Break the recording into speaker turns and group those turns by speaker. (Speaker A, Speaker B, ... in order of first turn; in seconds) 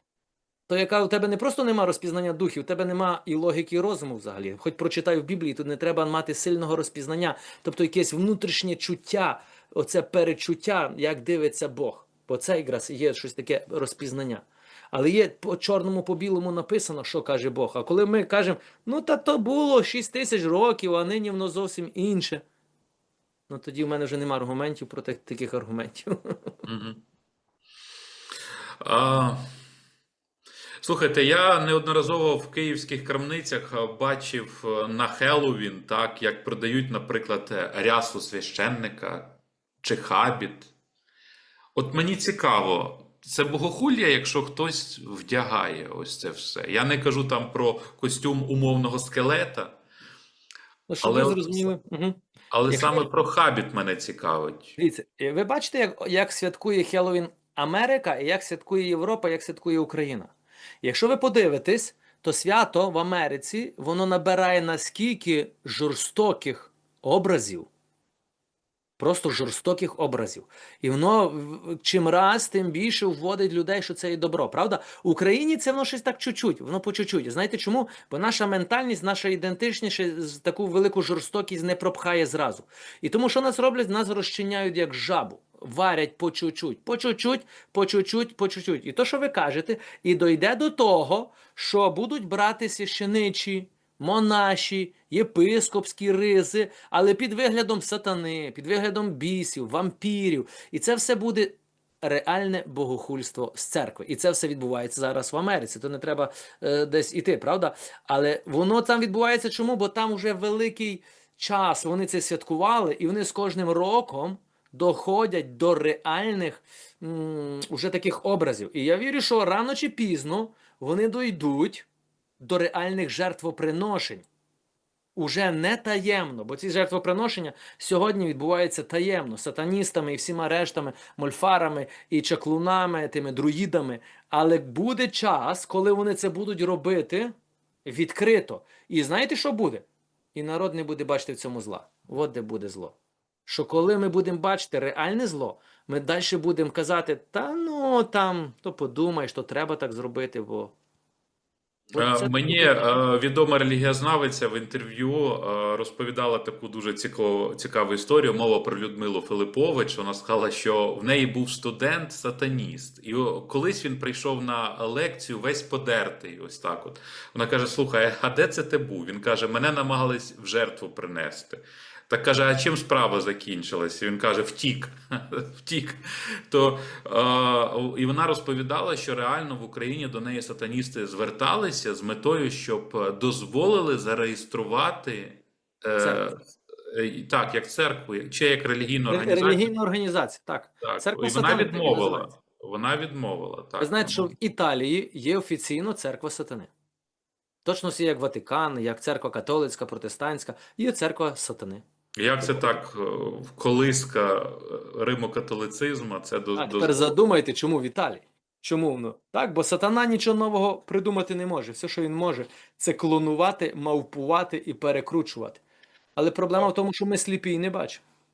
Speaker A: 0.7-22.4, 23.5-26.6, 50.9-53.1, 54.8-67.7, 69.0-121.9, 122.4-124.3, 125.2-137.3, 137.8-143.0, 143.5-150.8, 151.9-153.0, 186.0-186.3, 189.1-192.3, 193.8-196.7, 197.7-201.8, 202.4-202.7, 206.6-215.6, 216.2-218.0
Speaker B: 26.7-27.0, 28.8-29.4, 30.8-40.7, 41.8-49.8, 51.0-51.7, 52.5-54.8, 152.0-189.7, 190.8-194.3, 202.2-207.1